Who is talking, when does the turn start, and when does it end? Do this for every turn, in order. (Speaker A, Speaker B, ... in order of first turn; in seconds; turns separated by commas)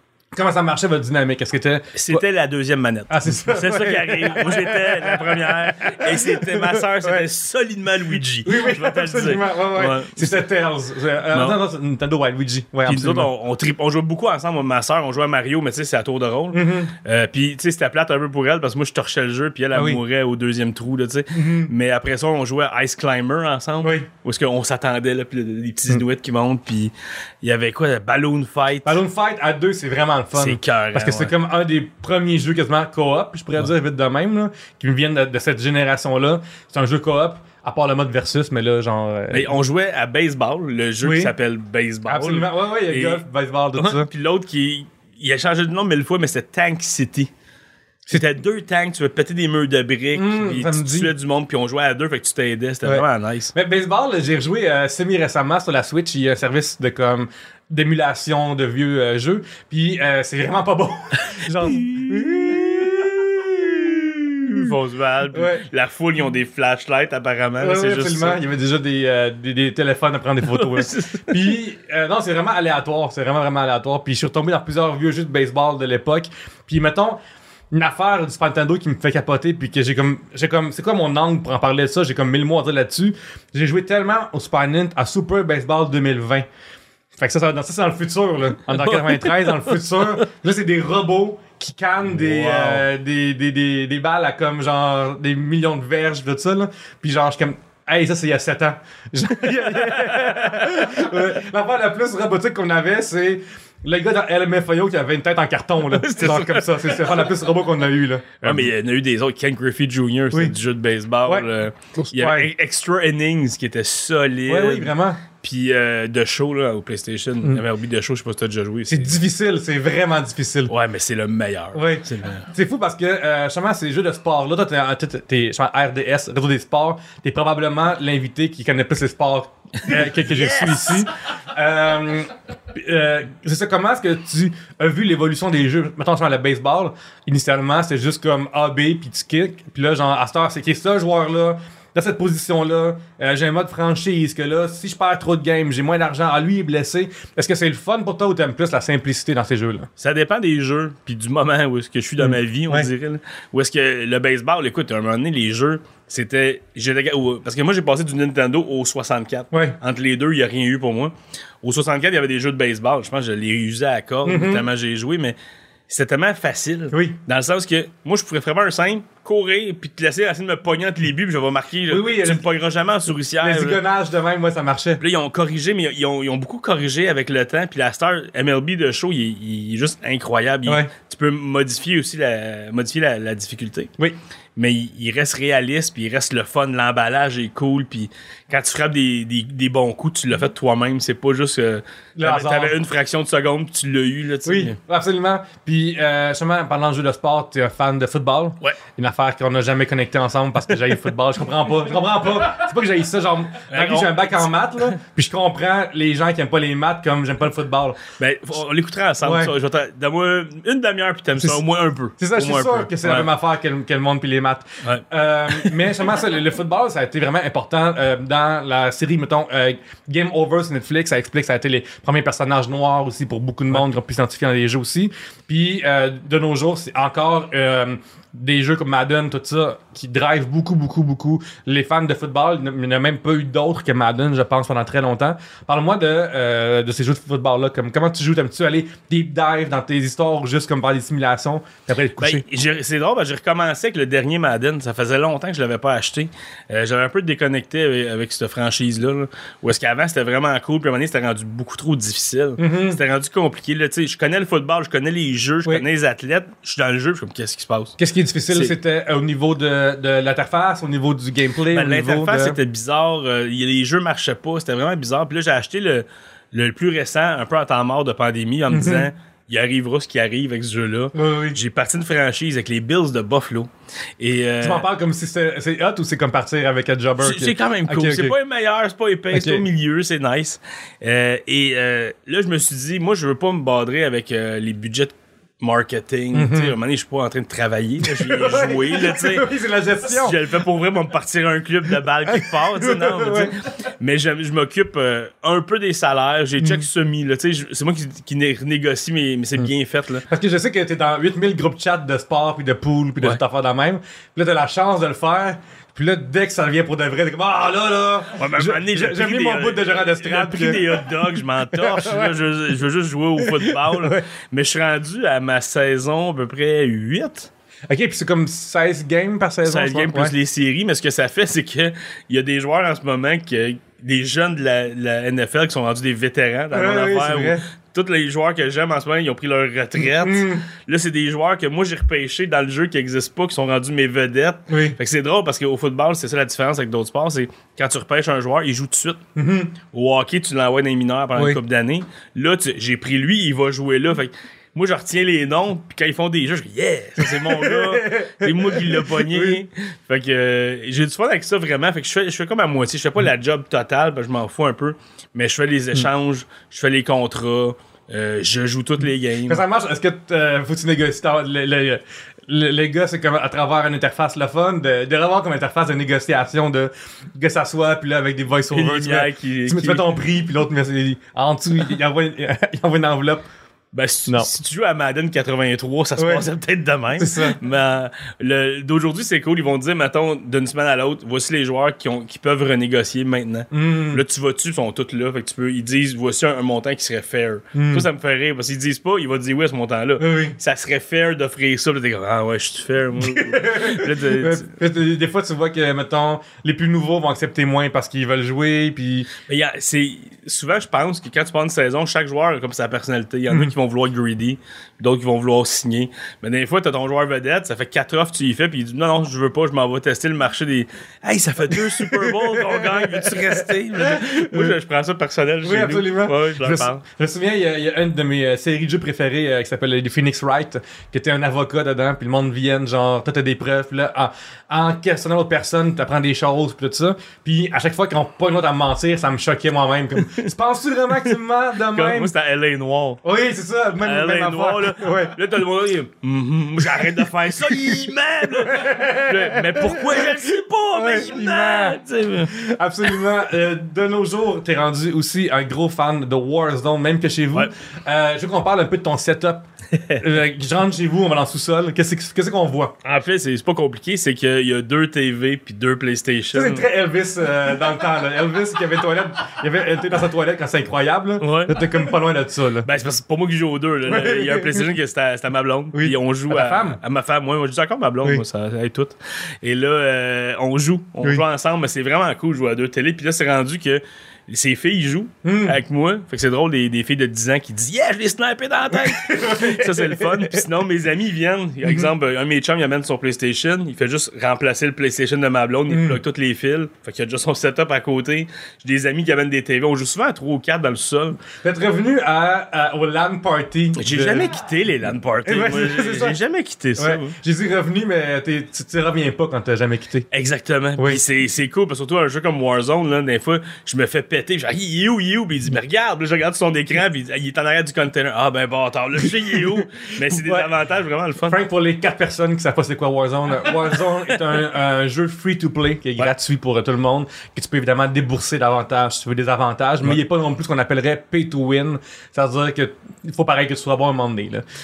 Speaker A: 0.3-2.2, Speaker B: 1.9-10.4, Speaker A: 3.1-7.2, Speaker A: 8.4-13.3, Speaker B: 11.3-11.6, Speaker B: 12.8-26.9, Speaker A: 16.5-16.9, Speaker A: 19.7-20.0, Speaker A: 21.3-21.7, Speaker A: 23.8-24.1, Speaker B: 27.4-29.0, Speaker A: 28.8-39.5, Speaker B: 30.3-31.3, Speaker B: 39.3-43.2, Speaker A: 41.0-41.3, Speaker A: 42.0-44.1, Speaker B: 43.8-47.3, Speaker B: 48.1-53.5, Speaker A: 50.1-51.1, Speaker A: 52.8-64.7, Speaker B: 61.5-68.4, Speaker A: 65.3-65.7, Speaker A: 67.6-77.2, Speaker B: 70.5-71.4, Speaker A: 77.7-86.5, Speaker A: 87.2-108.7, Speaker B: 88.8-89.5, Speaker B: 92.1-92.8, Speaker B: 99.6-100.9, Speaker B: 105.9-107.3, Speaker B: 108.4-119.1, Speaker A: 111.2-112.5, Speaker A: 114.5-115.2, Speaker A: 118.9-120.7, Speaker B: 120.7-122.5, Speaker A: 121.7-149.9, Speaker B: 129.8-131.1, Speaker B: 150.0-165.3, Speaker A: 152.2-152.9, Speaker A: 159.5-159.8, Speaker A: 164.2-164.7, Speaker B: 165.9-173.8, Speaker A: 166.9-167.2, Speaker A: 171.9-172.5, Speaker A: 173.4-175.0, Speaker B: 175.0-183.9, Speaker B: 184.6-194.8, Speaker A: 192.2-192.8, Speaker A: 194.4-208.0, Speaker B: 203.7-204.9, Speaker B: 208.2-213.3, Speaker A: 209.2-209.5, Speaker A: 212.2-242.4, Speaker B: 214.8-215.8, Speaker B: 242.2-258.0, Speaker A: 252.6-253.0, Speaker A: 258.0-262.6, Speaker B: 261.7-274.9, Speaker A: 268.7-269.1, Speaker A: 271.1-271.6, Speaker A: 274.6-278.4, Speaker B: 277.2-289.5, Speaker A: 279.3-279.6, Speaker A: 286.3-286.8, Speaker A: 288.0-290.4, Speaker B: 290.0-300.2, Speaker A: 292.3-293.5, Speaker A: 296.6-296.9, Speaker A: 300.3-312.4, Speaker B: 308.4-317.5, Speaker A: 313.4-314.2, Speaker A: 317.9-320.3, Speaker B: 319.6-339.2, Speaker A: 326.7-327.6, Speaker A: 330.0-330.6, Speaker A: 334.7-335.0, Speaker A: 339.4-339.7, Speaker B: 339.9-359.6, Speaker A: 347.2-349.6, Speaker A: 359.5-373.4, Speaker B: 368.7-370.1, Speaker B: 373.9-394.7, Speaker A: 376.2-376.5, Speaker A: 377.2-377.6, Speaker A: 383.7-384.2, Speaker A: 387.7-388.1, Speaker A: 390.2-390.5, Speaker A: 393.2-399.3, Speaker B: 399.5-417.0, Speaker A: 411.7-414.8, Speaker A: 415.6-432.3, Speaker B: 431.9-433.2, Speaker A: 433.2-435.4, Speaker B: 434.0-442.5, Speaker A: 436.9-449.6, Speaker B: 449.9-450.2, Speaker A: 450.2-452.9, Speaker B: 453.0-456.9, Speaker A: 456.5-462.9, Speaker B: 461.4-461.8, Speaker B: 462.8-491.4, Speaker A: 464.1-464.9, Speaker A: 465.9-467.0, Speaker A: 475.4-475.8, Speaker A: 478.9-480.6, Speaker A: 481.8-482.1, Speaker A: 485.9-486.2, Speaker A: 491.6-494.5, Speaker B: 493.9-497.3, Speaker A: 495.4-496.4, Speaker A: 497.0-500.3, Speaker B: 500.3-511.6, Speaker A: 510.2-510.7, Speaker A: 511.5-524.6